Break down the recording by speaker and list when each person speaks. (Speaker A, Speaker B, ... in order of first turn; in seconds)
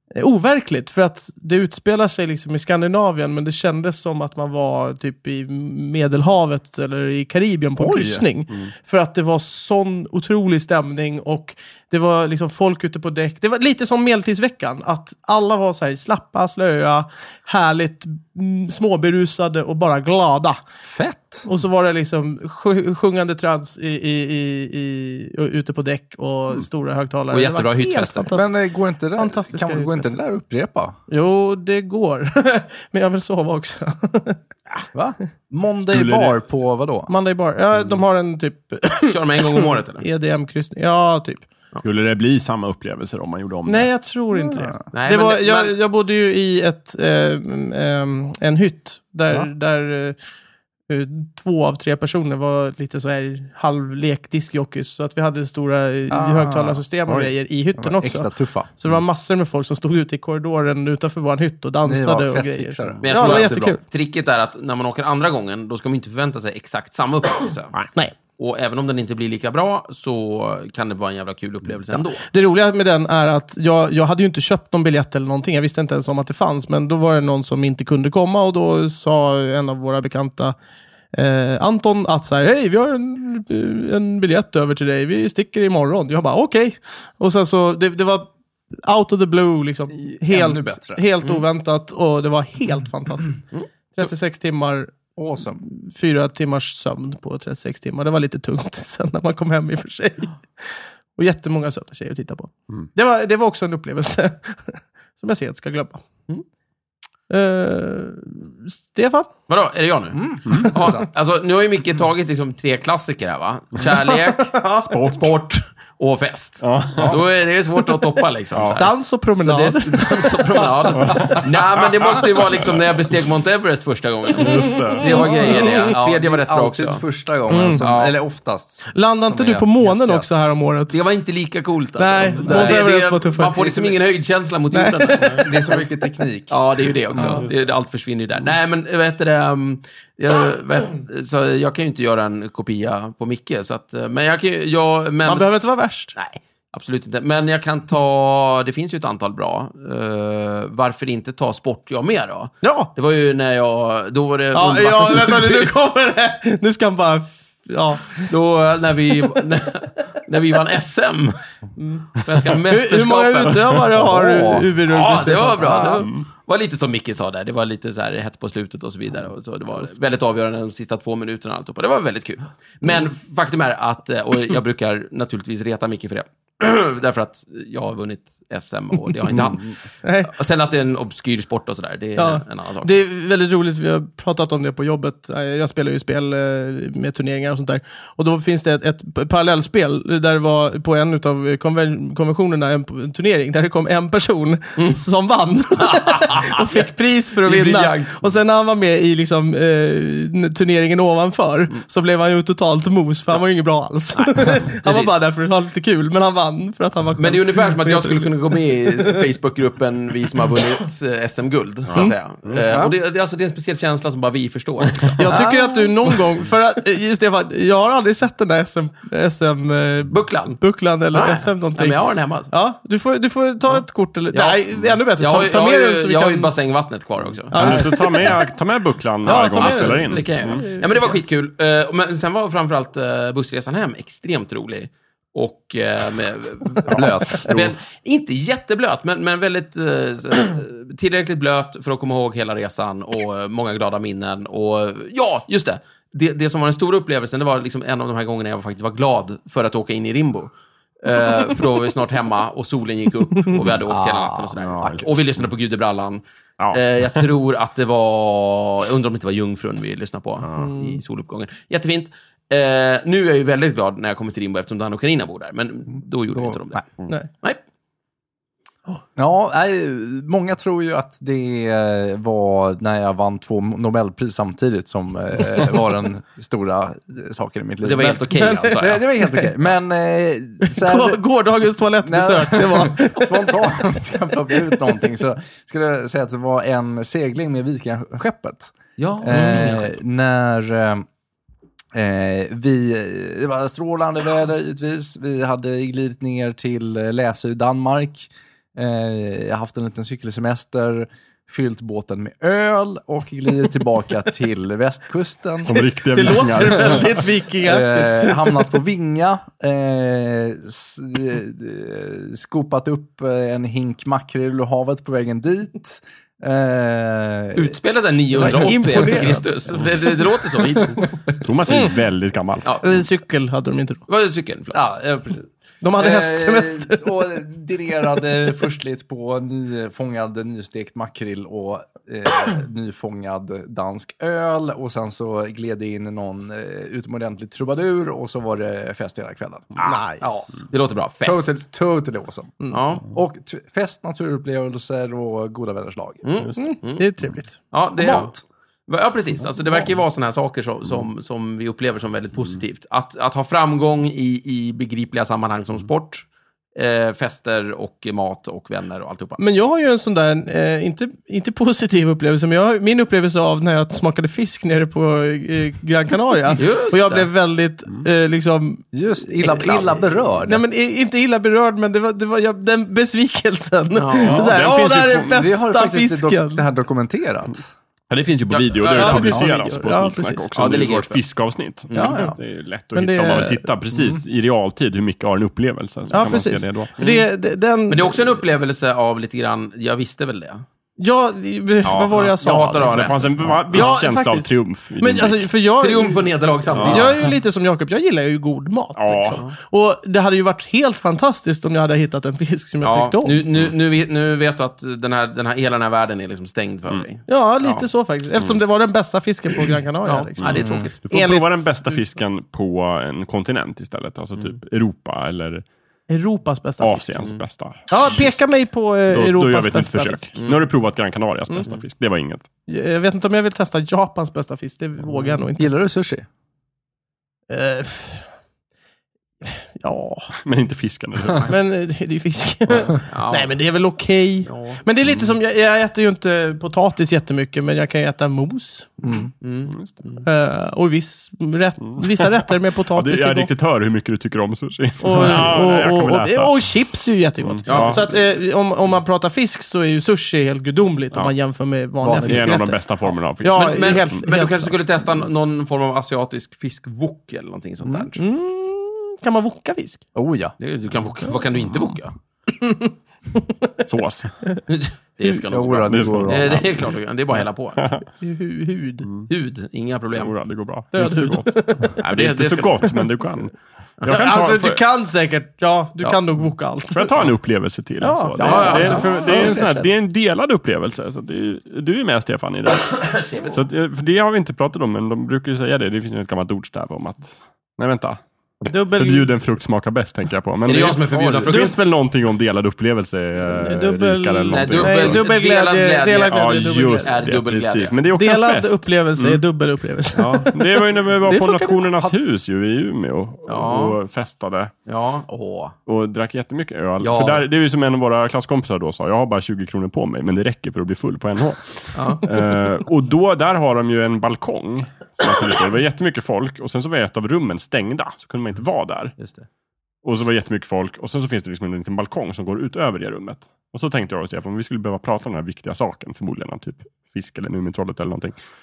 Speaker A: 0.1-20.6, 21.4-28.5, 29.1-30.1, 31.1-34.4, 37.1-41.5, 43.6-50.1, 50.9-63.8, 71.9-80.5, 81.1-93.4, 93.9-94.9, 95.6-106.0, 107.3-109.3, 113.9-115.3, 118.8-121.1, 124.9-125.8, 127.5-127.8, 128.9-130.9, 132.0-133.9, 134.7-135.6, 137.2-137.4, 145.2-146.1, 152.6-152.9, 154.5-158.3, 161.8-162.1, 162.7-166.1, 180.0-180.3, 182.2-209.2, 215.2-226.5, 227.5-228.3, 229.2-231.1, 260.6-260.9, 278.4-278.8, 280.6-283.8, 284.5-284.8, 289.3-289.7, 306.1-308.7, 318.4-319.5, 322.8-324.0, 325.8-327.1, 339.8-340.3, 346.6-347.6, 359.4-376.6, 378.9-380.5, 381.9-382.4, 382.9-383.6, 386.1-388.4, 391.0-403.4, 407.3-412.0, 416.1-417.1, 417.9-420.3, 422.7-425.7, 427.5-428.2, 429.4-430.3, 431.4-439.0, 440.2-443.5, 445.0-452.8, 453.4-454.7, 458.2-460.0, 462.6-463.7, 468.2-469.1, 470.9-471.9, 474.1-477.1, 478.0-479.8, 488.7-489.3, 493.5-497.4, 498.1-502.1
Speaker B: 7.8-8.2, 20.8-21.4, 28.3-30.9, 34.9-37.1, 44.5-44.8, 56.1-56.8, 57.8-58.7, 61.8-63.8, 90.0-91.0, 95.2-95.6, 110.1-111.0, 117.0-117.2, 125.0-130.3, 132.3-132.9, 135.4-136.6, 137.1-137.4, 163.9-164.8, 179.3-179.6, 212.5-212.9, 215.3-215.9, 236.8-237.5, 253.8-255.1, 266.3-266.8, 269.1-281.2, 282.0-291.0, 291.9-305.8, 307.6-317.8, 324.7-340.7, 341.2-342.5, 343.1-346.3, 348.0-348.4, 368.9-370.6, 375.3-377.6, 381.9-382.4, 383.9-384.2, 410.5-410.9, 425.6-426.2, 439.0-439.3, 452.0-452.7, 460.1-460.5, 465.5-466.9, 478.6-479.8, 491.1-491.4
Speaker C: 27.3-28.3, 39.1-40.0, 44.9-45.7, 63.0-67.8, 68.4-72.2, 109.5-128.1, 130.9-135.8, 136.5-145.5, 146.2-155.7, 158.2-161.3, 162.1-163.9, 164.8-179.7, 180.2-182.9, 195.8-196.9, 197.4-198.2, 204.2-205.1, 207.2-215.3, 220.1-220.6, 221.1-222.5, 224.3-224.6, 225.2-228.0, 229.2-266.9, 277.8-279.1, 289.0-289.9, 317.6-321.1, 324.1-324.8, 340.7-341.5, 342.7-343.1, 346.2-348.4, 348.9-359.4, 366.5-367.3, 373.9-374.6, 378.5-379.4, 380.6-381.2, 381.9-382.2, 387.0-387.2, 387.9-390.6, 391.8-393.9, 395.8-397.3, 402.8-407.8, 410.0-411.0, 420.4-420.6, 433.1-433.5, 434.4-434.8, 439.4-440.2, 445.1-445.5, 447.7-448.1, 453.5-458.2, 460.6-462.1, 464.7-467.9, 469.3-470.3, 472.0-473.4, 474.0-474.8, 478.4-479.5, 483.0-483.6, 490.6-491.8, 494.5-497.9, 503.5-504.0, 504.9-505.7, 507.0-507.4, 511.9-512.3, 519.2-519.5
Speaker D: 35.9-36.4, 41.8-43.9, 114.9-115.3, 116.6-117.2, 118.5-118.8, 120.9-123.0, 124.3-125.1, 227.5-230.7, 236.9-237.7, 254.6-255.4, 256.6-257.2, 260.4-260.7, 305.6-307.2, 321.4-323.0, 374.2-375.4, 378.1-386.9, 392.8-395.4, 396.7-397.3, 398.9-399.4, 410.5-415.6, 416.8-418.4, 419.1-422.4, 430.4-431.5, 435.0-435.3, 439.7-440.0, 441.9-442.3, 442.9-446.6, 447.4-448.0, 452.2-454.2, 463.9-464.3, 465.9-466.8, 467.8-468.1, 470.2-474.7, 476.9-495.2, 496.3-499.4, 500.1-504.7, 505.9-519.1, 520.0-528.4